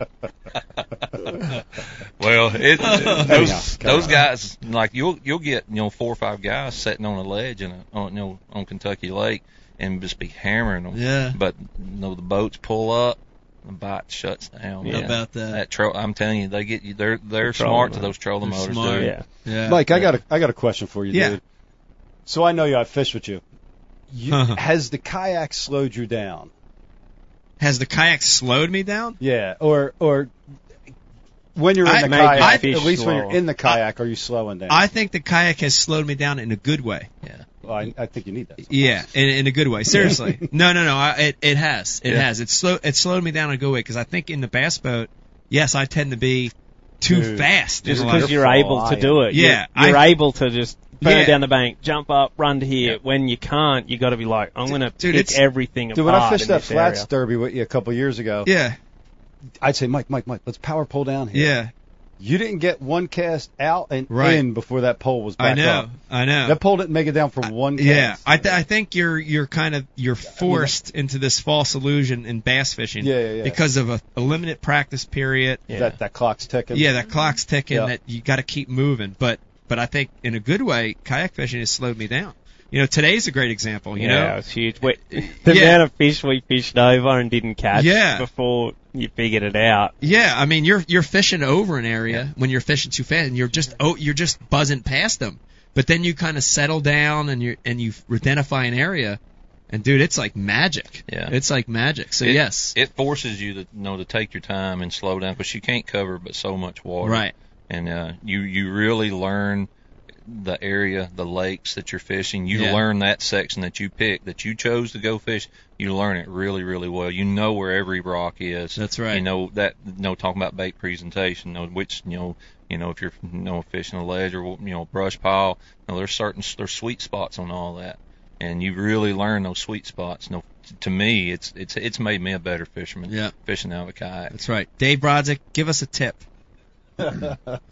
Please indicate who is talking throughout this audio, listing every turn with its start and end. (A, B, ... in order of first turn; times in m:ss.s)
0:02.2-0:19.1 A
0:02.8-0:03.6 B
0:03.2-0:04.2 C
0:10.9-0:11.4 B
0:14.8-0:15.1 D
0:14.9-0:15.6 B
0:17.4-0:18.1 D
0:18.4-0:19.8 B
0:19.0-0:19.2 D
0:19.6-0:21.4 C
0:21.1-0:21.4 B
0:22.3-0:23.4 C
0:24.1-0:26.5 C
0:24.3-0:24.6 B
0:27.6-0:29.2 B
0:29.2-0:30.3 C
0:31.6-0:34.8 C
0:31.8-0:32.8 B
0:31.9-0:33.4 D
0:34.7-0:37.1 B
0:37.6-0:39.0 C
0:38.7-0:48.4 B
0:39.9-0:40.4 C
0:47.1-0:49.2 C
0:47.8-0:57.1 D
0:49.3-0:50.1 B
0:51.0-0:51.4 B
0:54.7-0:55.4 B
0:55.9-0:58.5 C
0:58.4-0:58.8 B
0:59.6-1:01.6 C
1:01.3-1:01.7 B
1:02.2-1:05.9 C
1:04.1-1:04.4 B
1:05.4-1:06.6 B
1:06.4-1:08.6 C
1:07.4-1:15.6 B
1:10.4-1:10.7 C
1:13.0-1:13.6 C
1:15.7-1:16.9 C
1:16.7-1:24.4 B
1:24.0-1:30.0 D
1:25.4-1:25.8 B
1:27.7-1:28.3 B
1:30.0-1:39.2 B
1:39.7-1:42.8 B
1:41.1-1:41.4 A
1:42.2-1:49.7 A
1:47.0-1:47.3 B
1:50.3-2:14.3 A
1:52.5-1:52.8 B
1:58.8-1:59.2 B
2:13.1-2:13.3 B
2:14.3-2:16.2 B
2:17.1-2:17.4 C